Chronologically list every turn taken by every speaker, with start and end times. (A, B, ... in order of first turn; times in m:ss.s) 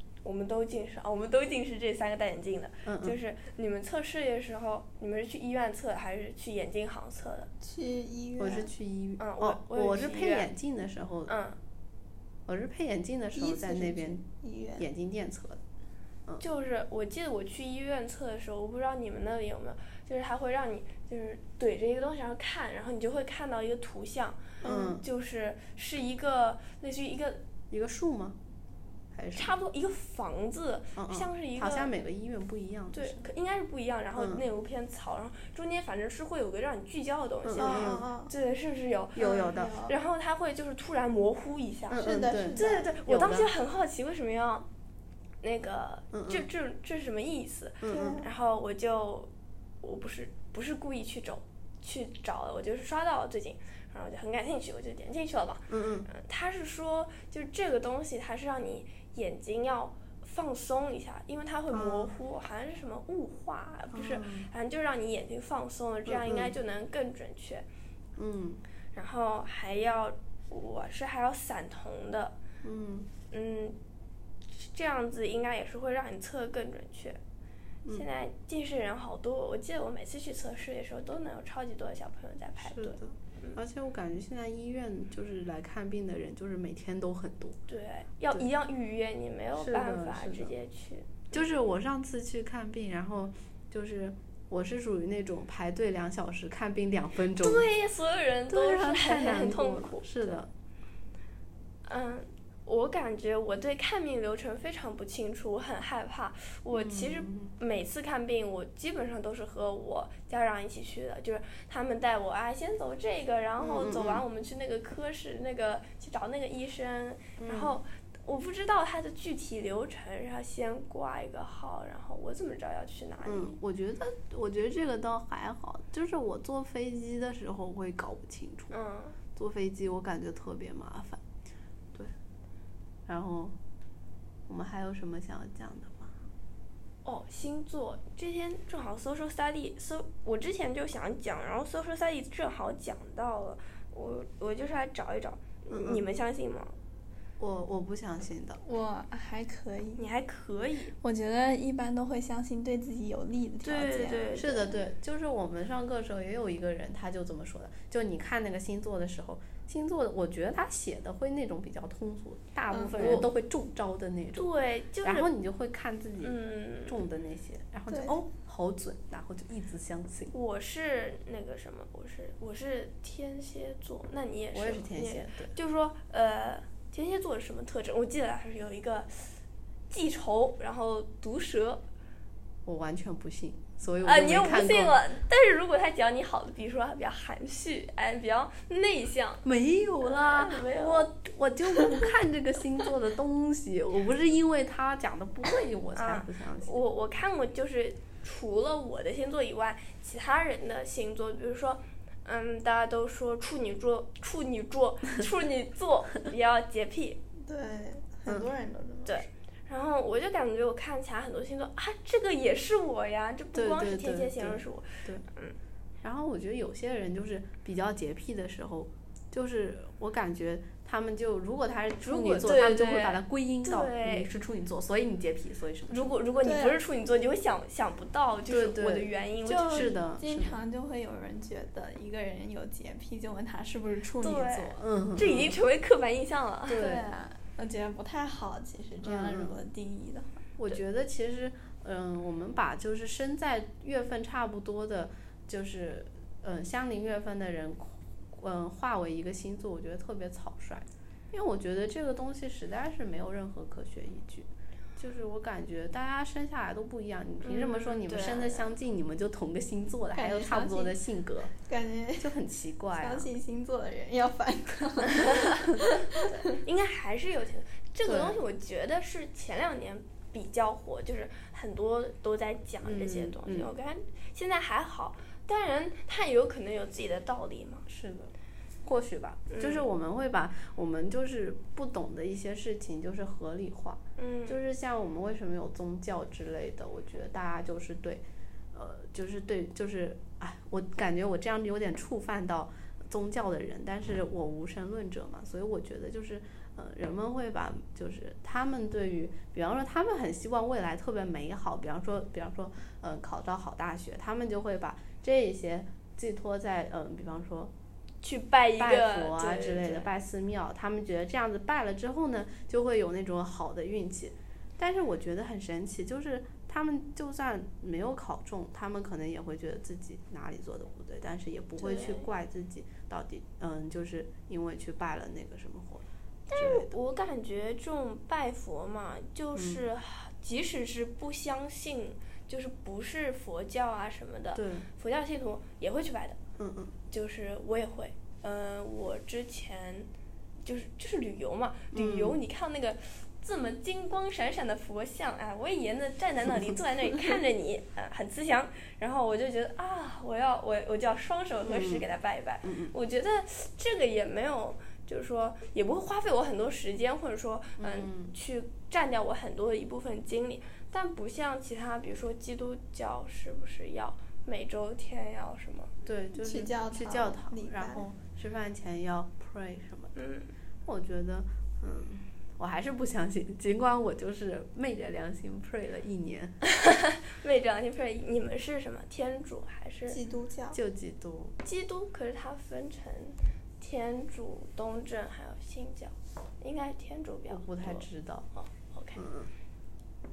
0:00.2-0:07.5 A
0:02.8-0:03.2 B
0:07.6-0:08.7 C
0:08.4-0:11.3 B
0:09.2-0:10.5 A
0:11.3-0:11.6 A
0:12.5-0:14.2 B
0:13.3-0:14.8 C
0:14.8-0:15.6 B
0:16.4-0:27.4 A
0:24.6-0:25.0 C
0:24.6-0:25.0 B
0:27.7-0:28.4 B
0:29.1-0:29.5 B
0:29.3-0:31.9 A
0:31.0-0:33.2 B
0:32.9-0:42.0 A
0:34.1-0:34.4 B
0:37.4-0:38.0 B
0:37.6-0:38.3 C
0:39.2-0:39.8 B
0:39.2-0:39.9 C
0:41.9-0:43.5 B
0:42.0-0:42.9 C
0:42.5-0:44.7 A
0:45.4-0:49.3 A
0:46.1-0:46.5 B
0:47.8-0:48.2 B
0:47.9-0:48.3 C
0:49.8-1:07.6 A
0:55.7-0:56.1 B
1:01.7-1:02.2 B
1:03.9-1:04.5 B
1:06.1-1:06.6 B
1:08.2-1:08.6 B
1:08.9-1:12.4 A
1:12.6-1:13.1 B
1:13.3-1:13.8 A
1:14.5-1:17.2 A
1:17.9-1:23.6 A
1:22.6-1:27.6 B
1:27.7-1:31.4 A
1:29.6-1:30.5 B
1:31.3-1:37.7 B
1:37.4-1:40.4 A
1:38.5-1:40.5 B
1:41.8-2:03.6 A
1:46.7-1:47.5 B
1:53.6-1:54.2 B
1:57.4-1:57.8 B
2:03.2-2:08.7 B
2:08.7-2:09.2 A
2:09.3-2:11.2 B
2:13.0-2:13.6 B
2:14.5-2:16.2 B
2:17.0-2:26.7 A
2:25.7-2:26.0 B
2:27.4-2:28.6 B
2:28.6-2:30.1 C
2:30.0-2:30.9 A
2:31.0-2:34.4 C
2:33.6-2:34.8 A
2:34.4-2:50.3 B
2:42.7-2:43.2 C
2:43.0-2:43.2 A
2:44.4-2:45.3 A
2:46.2-2:47.0 A
2:47.9-2:48.2 C
2:50.3-2:59.4 A
2:54.5-2:55.5 B
2:59.9-3:01.8 A
3:02.6-3:05.0 B
3:04.0-3:09.4 A
3:09.4-3:16.8 B
3:10.0-3:11.1 A
3:11.7-3:12.1 A
3:16.0-3:27.2 A
3:27.4-3:29.2 C
3:29.0-3:35.5 A
3:33.5-3:35.2 B
3:36.0-3:46.1 B
3:42.1-3:44.3 A
3:45.9-3:49.9 A
3:46.4-3:46.8 C
3:48.5-3:49.1 B
3:49.4-3:54.8 C
3:49.7-3:50.6 B
3:54.2-3:56.9 A
3:54.7-3:55.6 B
3:56.7-3:57.0 B
3:56.8-4:00.4 C
3:59.0-3:59.6 B
4:00.6-4:21.5 B
4:17.4-4:18.7 A
4:20.1-4:21.0 C
4:21.6-4:22.3 C
4:22.2-4:23.3 B
4:23.0-4:26.6 C
4:26.5-4:37.8 A
4:28.0-4:28.4 B
4:32.8-4:33.7 B
4:37.8-4:38.3 B
4:38.8-5:07.7 B
4:39.5-4:39.8 A
4:44.2-4:44.6 A
5:08.2-5:10.1 A
5:08.8-5:26.9 B
5:21.8-5:22.3 A
5:26.5-5:36.4 A
5:29.5-5:29.8 B
5:34.5-5:34.9 B
5:36.6-5:37.0 B
5:37.1-5:40.1 A
5:40.6-6:05.9 A
5:41.9-5:42.4 B
5:51.6-5:52.1 B
5:52.6-5:52.9 B
5:57.8-5:58.3 B
6:06.0-6:10.1 B
6:06.3-6:08.0 C
6:10.2-6:10.5 A
6:10.8-6:16.6 B
6:16.6-6:20.2 A
6:20.1-6:20.8 C
6:20.7-6:21.6 B
6:21.6-6:29.2 A
6:27.5-6:28.5 B
6:29.1-6:29.5 B